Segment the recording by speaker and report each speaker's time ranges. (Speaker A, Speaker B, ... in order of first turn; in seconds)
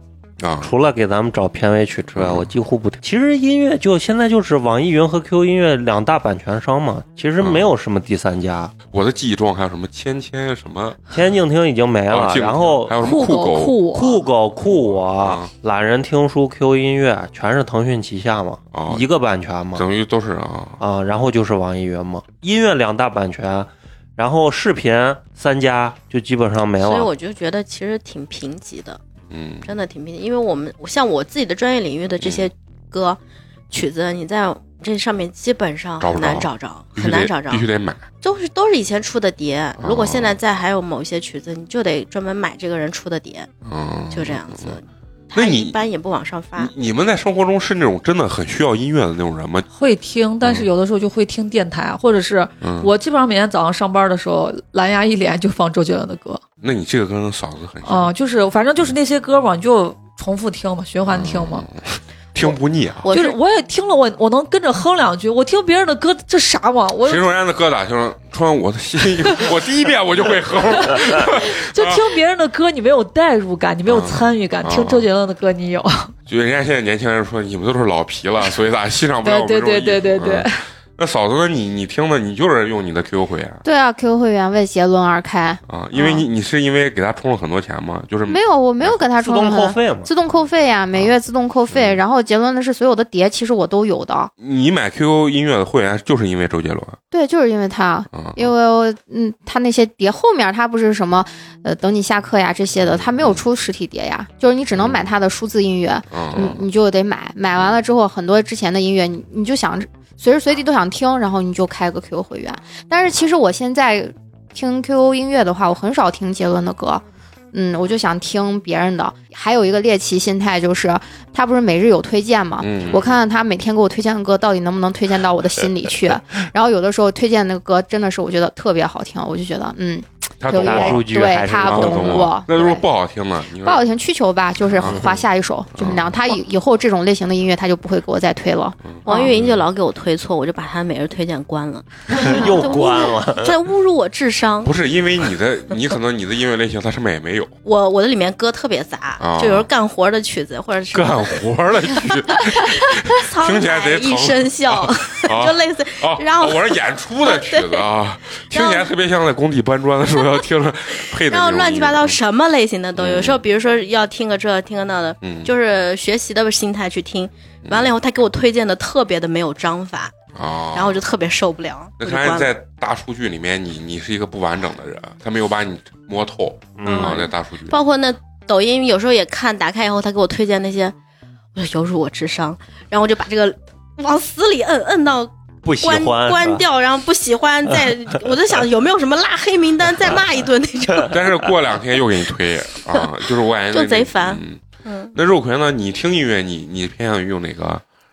Speaker A: 0.4-0.7, 2.1-2.5, 7.4-7.7, 8.9-11.0, 12.1-13.8, 14.7-15.5, 18.7-19.1, 19.7-20.8, 29.3-29.7, 32.2-32.5, 36.0-38.0, 39.8-40.4, 43.6-44.8, 45.3-45.8, 46.6-49.7, 50.4-50.7, 52.6-52.9, 56.6-58.1, 61.1-63.1, 67.0-72.1, 73.8-75.0, 76.3-83.6, 85.7-89.0, 91.7-92.0, 94.4-97.0, 98.1-98.5, 102.8-103.4, 104.8-105.0, 106.1-106.6, 122.6-123.2, 130.4-131.1, 131.7-133.8, 134.8-135.0, 135.8-136.1, 138.8-139.6, 144.6-147.5, 149.2-149.7, 150.9-162.2, 163.0-163.4, 165.2-165.5, 170.3-171.0, 172.0-177.8, 191.1-194.6, 195.1-197.8
Speaker B: 0.6-8.7, 11.1-13.0, 13.9-19.8, 20.8-27.1, 89.2-90.1, 130.5-132.4, 134.8-135.2, 142.1-143.5, 176.8-177.3, 185.6-186.6
Speaker C: 13.0-14.2, 49.7-56.4, 57.8-61.7, 63.1-67.3, 70.9-76.1, 79.2-80.6
Speaker D: 26.8-29.0, 29.6-33.2, 33.7-37.6, 38.2-43.5, 44.1-46.7, 62.4-63.4, 139.1-144.7, 147.6-151.4, 152.5-157.8, 158.5-158.9, 161.2-170.1, 170.7-172.5, 176.8-180.9, 181.5-191.2, 193.7-195.1
Speaker E: 83.6-86.2, 88.3-94.3, 97.1-132.8, 133.6-139.3